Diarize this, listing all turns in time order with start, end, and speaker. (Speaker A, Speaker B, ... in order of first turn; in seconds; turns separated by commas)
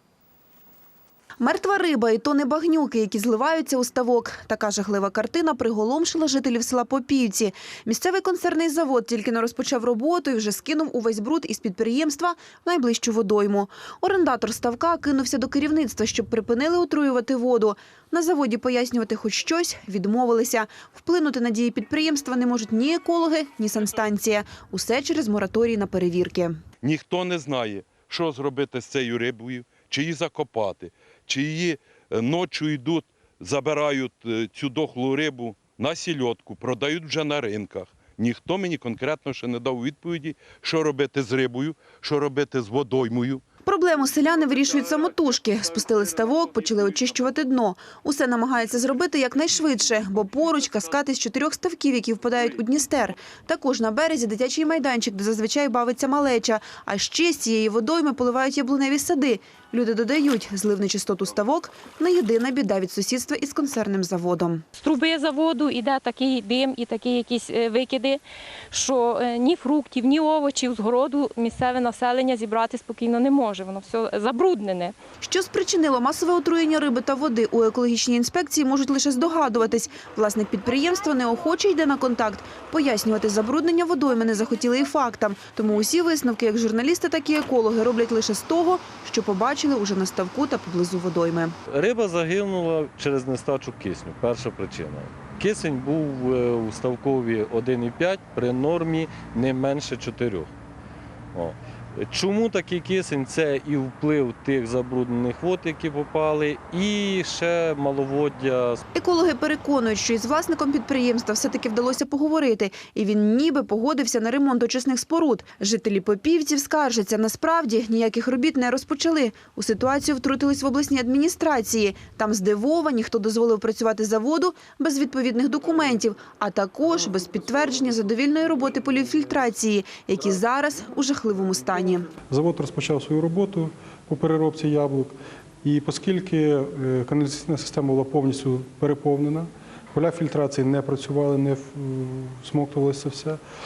Speaker A: 1.4-26.6, Speaker B: 26.8-43.4, Speaker A: 43.6-64.6, Speaker C: 64.8-74.9, Speaker A: 75.2-91.5, Speaker D: 91.7-100.5, Speaker D: 101.3-108.8, Speaker A: 108.9-132.1, Speaker E: 132.3-143.4